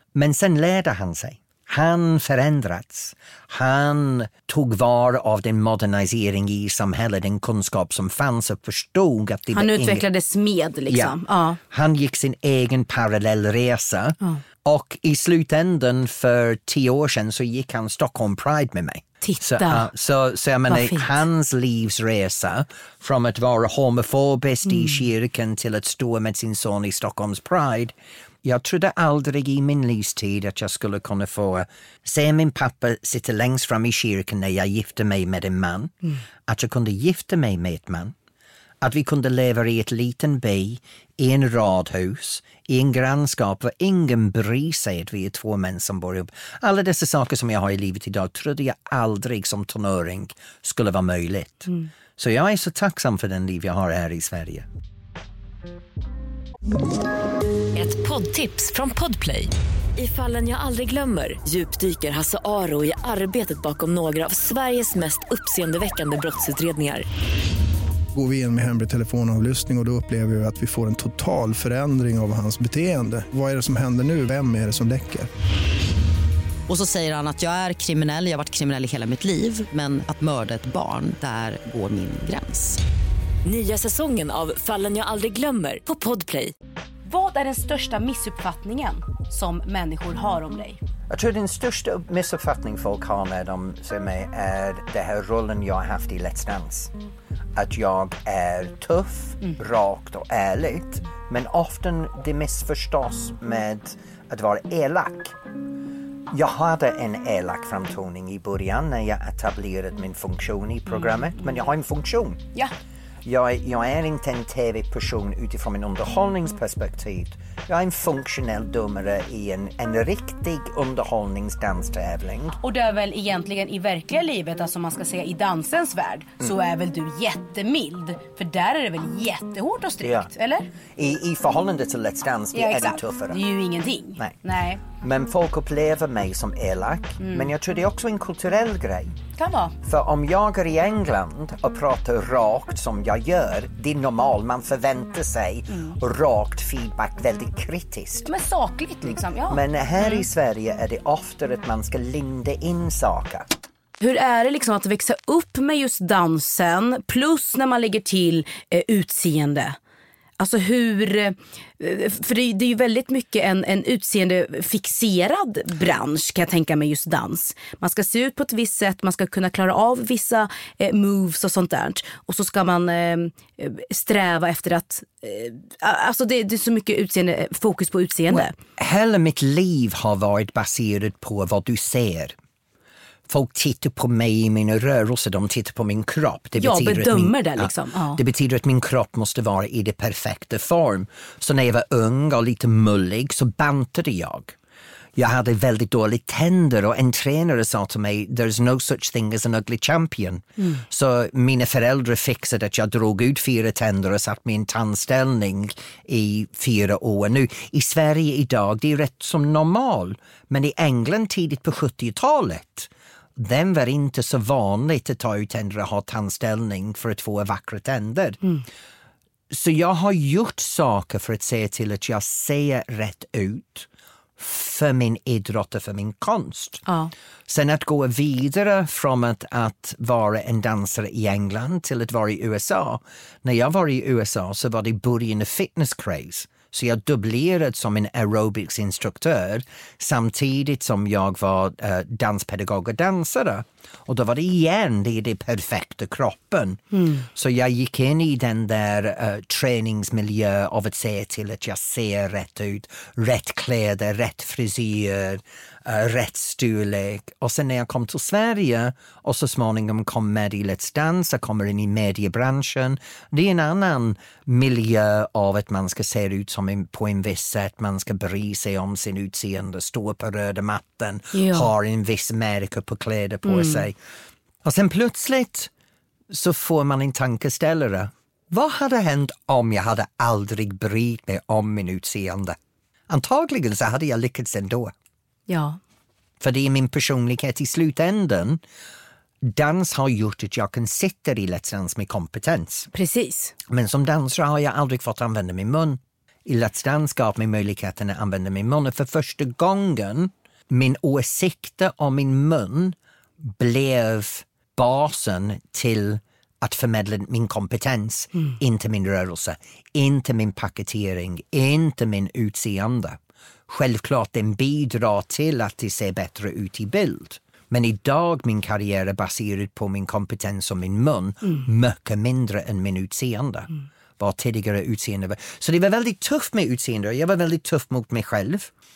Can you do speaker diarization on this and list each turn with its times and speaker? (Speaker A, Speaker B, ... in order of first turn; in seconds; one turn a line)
Speaker A: 0.1-10.0
Speaker B: 9.5-11.6
Speaker A: 10.9-11.1
Speaker A: 11.7-35.9
Speaker B: 19.2-19.9
Speaker B: 20.7-21.2
Speaker A: 36.5-38.1
Speaker A: 38.8-54.6
Speaker C: 57.7-67.0
Speaker D: 68.1-75.3
Speaker E: 76.7-82.8
Speaker C: 83.4-86.5
Speaker B: 87.0-90.8
Speaker A: 91.1-96.9
Speaker A: 97.5-105.3
Speaker A: 106.3-112.4
Speaker A: 113.2-122.6
Speaker B: 122.6-130.7
Speaker A: 130.0-130.3
Speaker A: 130.9-133.4
Speaker B: 132.5-134.8
Speaker A: 134.2-139.1
Speaker B: 137.2-137.5
Speaker B: 139.4-139.7
Speaker A: 139.8-148.3
Speaker B: 148.2-150.2
Speaker A: 149.5-153.4
Speaker B: 154.0-159.8
Speaker B: 160.4-178.5
Speaker A: 178.3-182.3
Speaker A: 183.3-194.5
Speaker B: 186.6-188.2
Speaker A: 195.2-218.4
Speaker A: 219.5-223.9
Speaker A: 224.4-226.8
Speaker A: 227.5-273.9
Speaker B: 246.9-247.2
Speaker B: 271.3-271.7
Speaker B: 273.4-273.8
Speaker A: 274.6-275.7
Speaker A: 276.3-282.6
Speaker A: 283.1-284.9
Speaker B: 285.5-285.8
Speaker A: 286.4-288.6
Speaker A: 289.4-292.9
Speaker B: 292.9-293.5
Speaker A: 293.7-313.2
Speaker A: 313.7-328.7